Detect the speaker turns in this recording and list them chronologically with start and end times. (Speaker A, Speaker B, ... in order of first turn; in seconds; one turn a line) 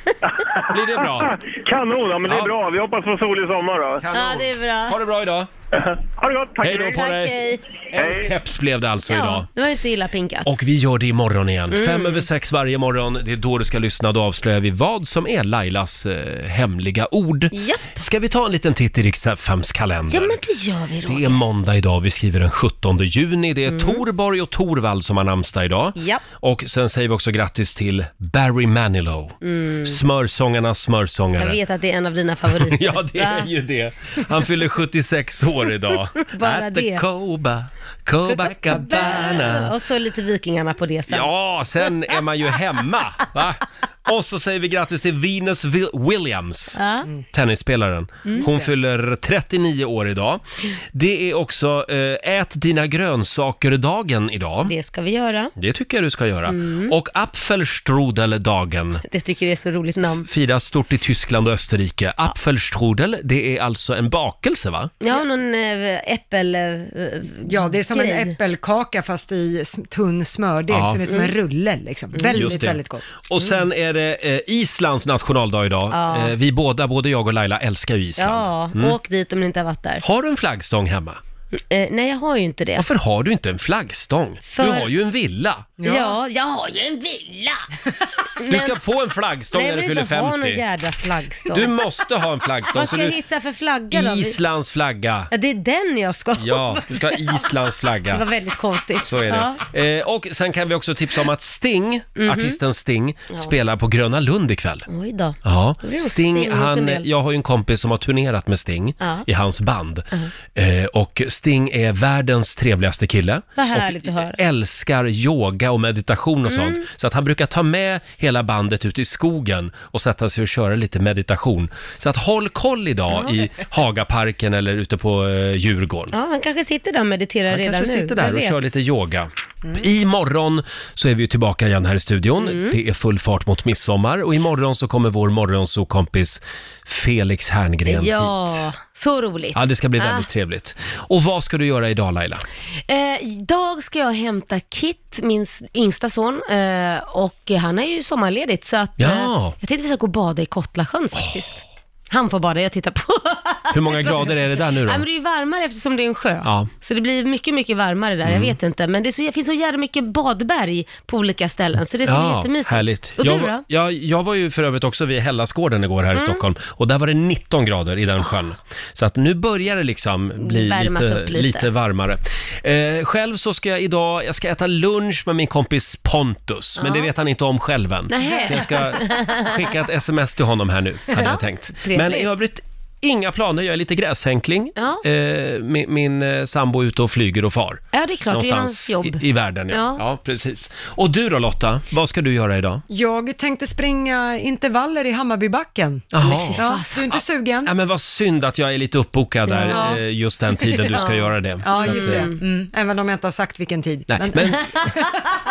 Speaker A: 0.2-4.0
Speaker B: 0.6-1.4
Speaker B: 2.3-2.5
Speaker B: 4.0-5.5
Speaker C: 4.1-5.0
Speaker A: 5.7-7.0
Speaker B: 6.6-7.4
Speaker C: 6.7-7.6
Speaker B: 7.9-9.5
Speaker A: 8.0-8.3
Speaker C: 9.1-10.6
Speaker B: 10.4-20.4
Speaker C: 11.7-12.3
Speaker C: 17.5-17.9
Speaker C: 20.1-21.4
Speaker B: 21.1-31.6
Speaker C: 23.7-24.0
Speaker C: 26.0-26.2
Speaker C: 29.4-30.0
Speaker C: 31.4-33.5
Speaker B: 32.5-39.7
Speaker C: 36.2-37.0
Speaker C: 38.3-41.3
Speaker B: 41.1-46.8
Speaker C: 46.8-47.1
Speaker B: 47.3-50.4
Speaker C: 48.2-48.5
Speaker D: 48.3-48.7
Speaker B: 50.9-54.7
Speaker C: 54.7-55.5
Speaker B: 55.6-59.0
Speaker C: 56.5-56.9
Speaker C: 59.1-60.3
Speaker B: 60.2-64.9
Speaker C: 65.0-68.4
Speaker D: 67.5-73.0
Speaker B: 70.7-71.0
Speaker C: 71.1-71.3
Speaker C: 72.1-72.6
Speaker B: 72.3-79.0
Speaker C: 75.9-76.4
Speaker C: 78.2-80.0
Speaker B: 80.0-81.2
Speaker C: 81.6-82.9
Speaker B: 82.8-85.7
Speaker C: 84.5-84.9
Speaker D: 85.8-86.2
Speaker C: 85.8-87.6
Speaker C: 88.3-88.8
Speaker B: 88.5-90.6
Speaker C: 89.5-91.7
Speaker B: 91.5-93.2
Speaker C: 92.7-94.4
Speaker B: 93.9-95.3
Speaker C: 95.3-97.5
Speaker B: 96.4-98.2
Speaker C: 98.0-99.6
Speaker B: 99.0-104.9
Speaker C: 102.2-102.6
Speaker C: 104.9-107.1
Speaker B: 105.4-126.1
Speaker C: 109.0-109.2
Speaker C: 113.6-114.4
Speaker C: 116.5-116.8
Speaker C: 123.1-123.4
Speaker C: 126.1-128.6
Speaker B: 127.5-138.7
Speaker C: 132.4-132.8
Speaker C: 137.9-140.3
Speaker B: 139.5-142.4
Speaker C: 142.9-163.6
Speaker B: 149.0-149.6
Speaker B: 151.1-151.5
Speaker B: 153.7-155.0
Speaker B: 156.4-156.7
Speaker B: 158.2-158.6
Speaker B: 162.0-192.8
Speaker C: 166.1-166.4
Speaker C: 170.4-171.7
Speaker C: 176.8-177.1
Speaker C: 178.1-179.7
Speaker C: 181.1-182.3
Speaker C: 184.8-185.0
Speaker C: 187.9-190.0
Speaker D: 192.9-197.7
Speaker B: 196.1-202.3
Speaker C: 196.2-197.1
Speaker C: 199.5-200.0
Speaker D: 199.7-200.0
Speaker D: 200.6-200.9
Speaker C: 200.9-202.4
Speaker D: 201.6-205.1
Speaker B: 204.1-204.9